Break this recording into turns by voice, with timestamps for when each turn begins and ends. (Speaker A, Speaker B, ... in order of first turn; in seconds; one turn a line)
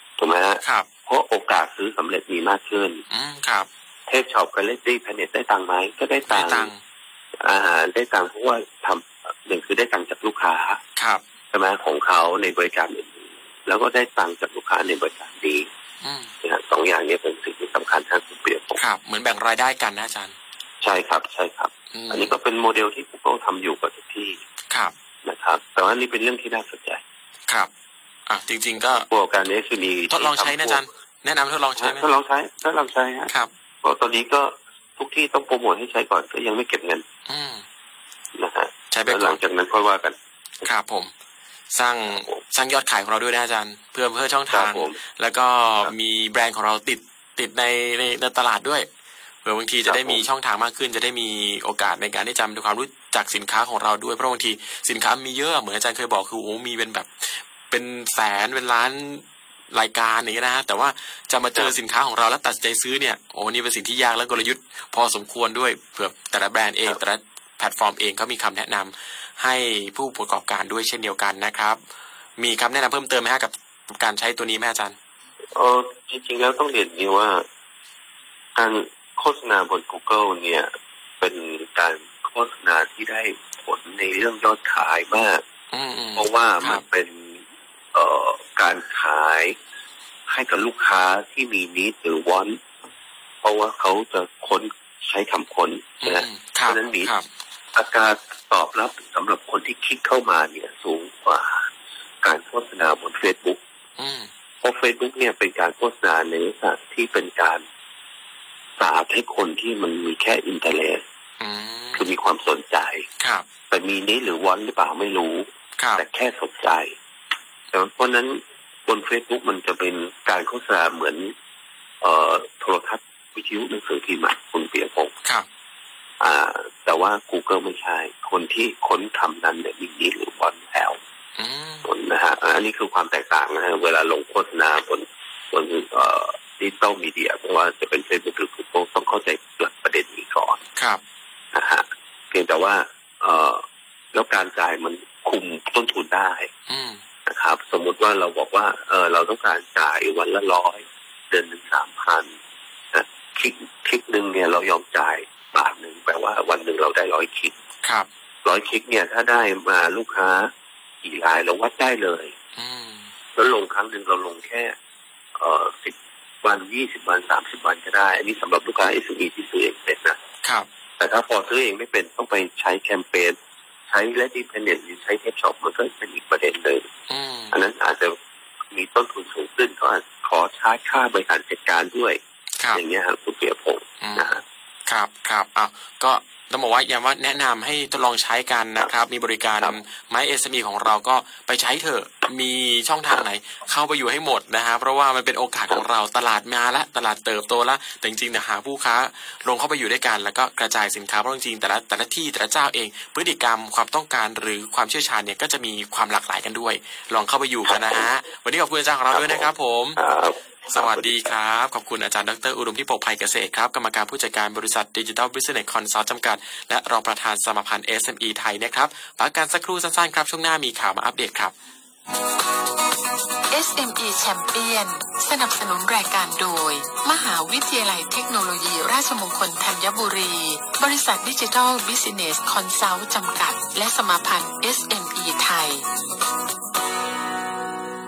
Speaker A: 0.2-3.0
Speaker B: 3.1-3.7
Speaker A: 4.1-6.7
Speaker B: 6.3-6.8
Speaker A: 7.4-10.8
Speaker B: 11.0-11.2
Speaker A: 11.5-15.7
Speaker B: 16.0-16.3
Speaker A: 16.4-18.8
Speaker B: 18.8-20.4
Speaker A: 20.8-24.4
Speaker B: 21.9-22.4
Speaker A: 25.2-27.0
Speaker B: 28.3-29.1
Speaker A: 29.1-30.8
Speaker B: 30.1-32.1
Speaker A: 31.8-33.3
Speaker A: 33.8-37.0
Speaker B: 37.3-37.6
Speaker A: 38.4-40.7
Speaker B: 38.9-39.4
Speaker B: 40.6-41.1
Speaker B: 41.7-48.9
Speaker A: 42.1-42.4
Speaker A: 44.5-45.0
Speaker B: 49.4-71.8
Speaker A: 49.9-50.2
Speaker B: 72.4-75.0
Speaker A: 75.5-77.4
Speaker A: 78.5-85.4
Speaker B: 85.7-86.8
Speaker A: 86.2-87.4
Speaker A: 87.9-89.5
Speaker A: 90.3-92.6
Speaker A: 93.4-97.1
Speaker B: 96.0-97.3
Speaker A: 97.8-101.7
Speaker A: 102.2-103.6
Speaker B: 104.0-104.3
Speaker A: 104.6-107.6
Speaker A: 108.8-111.0
Speaker B: 111.4-112.1
Speaker A: 111.9-113.0
Speaker B: 113.2-113.5
Speaker A: 113.7-116.9
Speaker B: 115.8-116.0
Speaker A: 117.7-121.3
Speaker A: 122.0-125.1
Speaker A: 126.2-131.0
Speaker B: 131.4-131.9
Speaker A: 131.8-140.6
Speaker B: 140.8-141.0
Speaker A: 141.5-143.6
Speaker A: 144.1-146.5
Speaker B: 146.7-147.0
Speaker A: 147.3-152.3
Speaker A: 152.9-157.5
Speaker B: 157.8-158.1
Speaker A: 158.4-160.5
Speaker A: 161.0-162.3
Speaker B: 162.6-163.1
Speaker A: 163.3-164.8
Speaker A: 165.4-170.2
Speaker A: 171.0-173.4
Speaker A: 173.9-176.9
Speaker B: 177.1-177.6
Speaker A: 177.5-178.1
Speaker A: 178.7-182.2
Speaker A: 182.7-184.4
Speaker B: 184.0-210.0
Speaker A: 207.6-208.1
Speaker A: 209.1-211.3
Speaker B: 210.7-221.5
Speaker C: 223.5-235.8